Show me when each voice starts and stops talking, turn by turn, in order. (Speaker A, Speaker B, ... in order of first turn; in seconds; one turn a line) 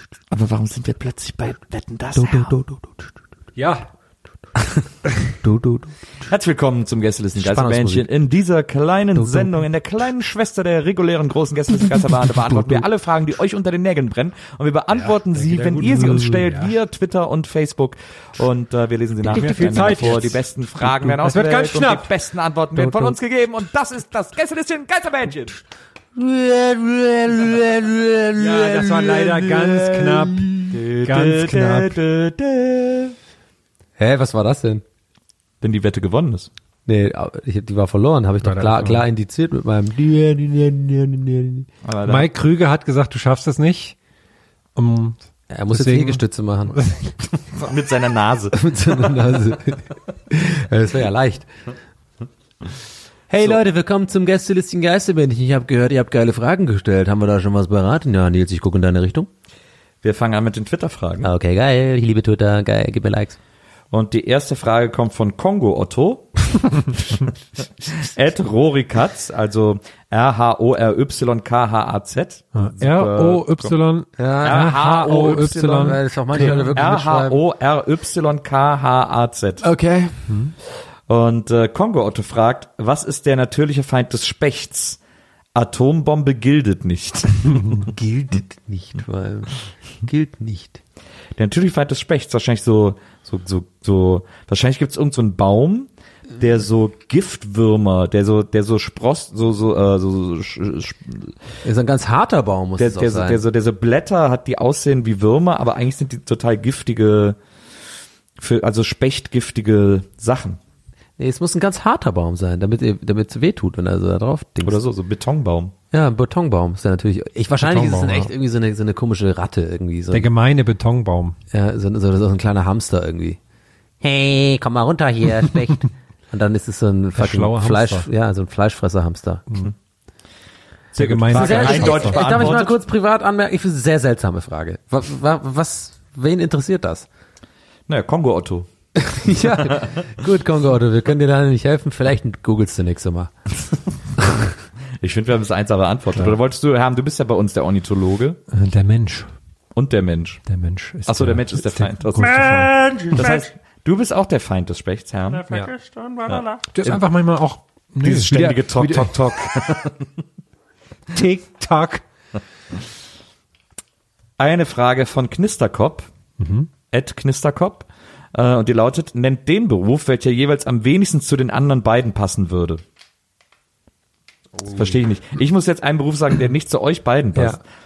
Speaker A: 0.3-2.5
Speaker B: 2.1-2.9
Speaker C: 3.5-3.9
Speaker B: 5.4-5.9
Speaker A: 6.2-25.6
Speaker B: 7.4-8.1
Speaker B: 9.2-9.6
Speaker B: 12.3-12.8
Speaker C: 15.0-16.7
Speaker C: 19.2-22.1
Speaker C: 22.8-23.1
Speaker B: 26.1-30.6
Speaker C: 28.4-32.0
Speaker A: 30.7-33.1
Speaker B: 34.0-34.8
Speaker A: 35.6-36.5
Speaker B: 36.9-41.7
Speaker C: 38.4-39.0
Speaker A: 41.8-42.3
Speaker C: 42.0-44.0
Speaker C: 44.8-47.1
Speaker B: 45.5-46.8
Speaker A: 47.5-48.5
Speaker B: 48.5-51.5
Speaker B: 53.3-59.3
Speaker A: 60.0-61.3
Speaker B: 61.2-63.4
Speaker A: 63.9-73.8
Speaker C: 72.5-76.7
Speaker B: 74.2-74.6
Speaker A: 74.4-79.7
Speaker B: 75.8-77.4
Speaker B: 79.6-80.3
Speaker A: 81.1-85.0
Speaker A: 85.5-87.9
Speaker B: 87.8-90.8
Speaker A: 91.4-101.3
Speaker B: 101.6-103.4
Speaker A: 102.8-107.4
Speaker A: 108.4-110.6
Speaker B: 111.2-114.8
Speaker A: 114.6-115.7
Speaker B: 115.9-120.3
Speaker C: 117.6-118.3
Speaker C: 120.1-121.3
Speaker B: 121.5-123.4
Speaker B: 124.0-129.4
Speaker C: 127.2-128.1
Speaker C: 130.9-132.5
Speaker A: 130.9-132.8
Speaker B: 131.3-137.1
Speaker A: 137.9-138.7
Speaker B: 139.0-143.3
Speaker A: 139.3-140.0
Speaker A: 145.0-148.4
Speaker C: 148.5-149.3
Speaker A: 149.7-150.4
Speaker C: 150.5-153.2
Speaker A: 151.1-155.7
Speaker B: 152.7-153.1
Speaker B: 155.8-156.4
Speaker A: 156.3-157.0
Speaker C: 156.7-159.5
Speaker A: 158.0-160.1
Speaker C: 161.1-162.0
Speaker A: 164.4-166.1
Speaker C: 166.4-166.7
Speaker A: 166.9-172.8
Speaker A: 174.7-177.6